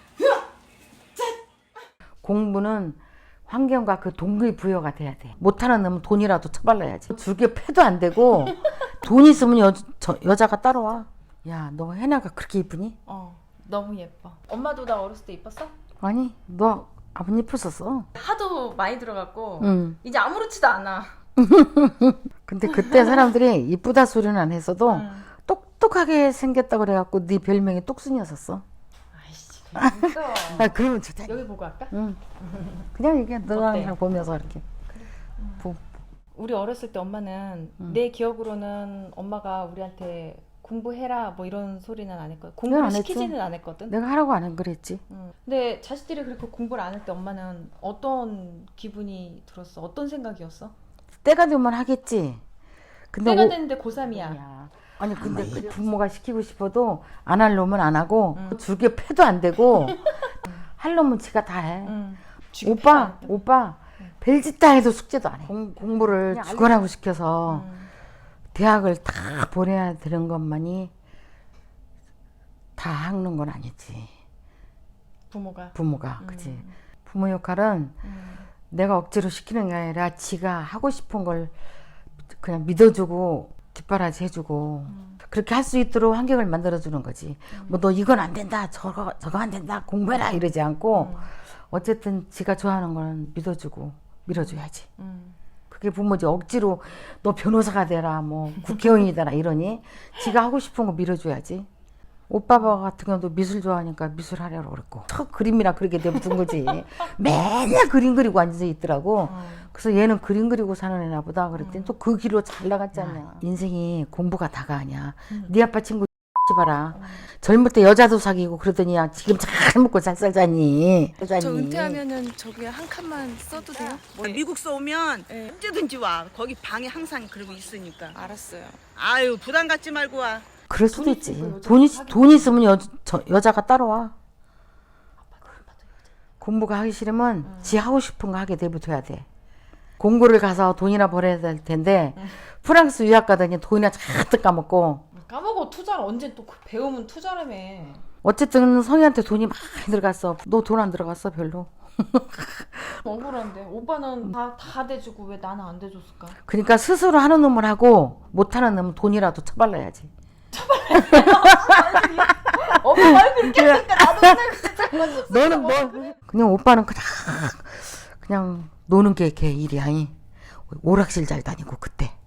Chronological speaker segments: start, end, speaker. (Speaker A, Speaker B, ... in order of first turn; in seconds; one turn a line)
Speaker A: 2.2-13.0
Speaker B: 13.1-15.7
Speaker A: 16.0-18.1
Speaker B: 18.1-21.2
Speaker A: 19.6-20.0
Speaker A: 21.4-28.6
Speaker B: 24.9-25.3
Speaker B: 29.1-32.9
Speaker A: 29.8-32.2
Speaker A: 32.9-34.6
Speaker B: 33.5-34.0
Speaker B: 34.9-35.6
Speaker B: 36.4-44.0
Speaker A: 42.7-43.4
Speaker A: 43.9-45.0
Speaker B: 45.1-50.8
Speaker A: 51.2-52.4
Speaker A: 53.1-62.0
Speaker B: 53.2-54.4
Speaker B: 58.3-58.6
Speaker B: 59.7-60.6
Speaker B: 61.8-63.4
Speaker A: 62.6-67.7
Speaker B: 65.9-66.8
Speaker B: 67.5-67.9
Speaker A: 68.5-70.9
Speaker A: 72.8-74.1
Speaker B: 75.3-76.7
Speaker A: 75.8-78.0
Speaker B: 78.0-78.5
Speaker A: 78.7-81.5
Speaker A: 82.4-94.9
Speaker B: 84.9-85.2
Speaker B: 87.5-87.8
Speaker B: 90.9-91.3
Speaker B: 94.3-95.4
Speaker A: 95.7-101.7
Speaker A: 102.3-122.0
Speaker B: 106.2-106.7
Speaker B: 109.2-109.7
Speaker B: 111.5-112.0
Speaker B: 112.9-113.4
Speaker B: 116.9-117.3
Speaker B: 121.2-124.4
Speaker C: 121.5-128.3
Speaker B: 125.3-125.7
Speaker B: 128.1-128.8
Speaker C: 128.9-130.5
Speaker A: 130.7-134.1
Speaker B: 130.9-132.8
Speaker B: 135.2-135.9
Speaker A: 136.4-139.3
Speaker B: 137.4-137.8
Speaker A: 140.0-145.1
Speaker B: 145.1-148.1
Speaker A: 148.2-153.0
Speaker B: 153.0-156.4
Speaker A: 156.5-160.1
Speaker B: 160.5-166.2
Speaker A: 161.1-170.2
Speaker A: 170.7-172.2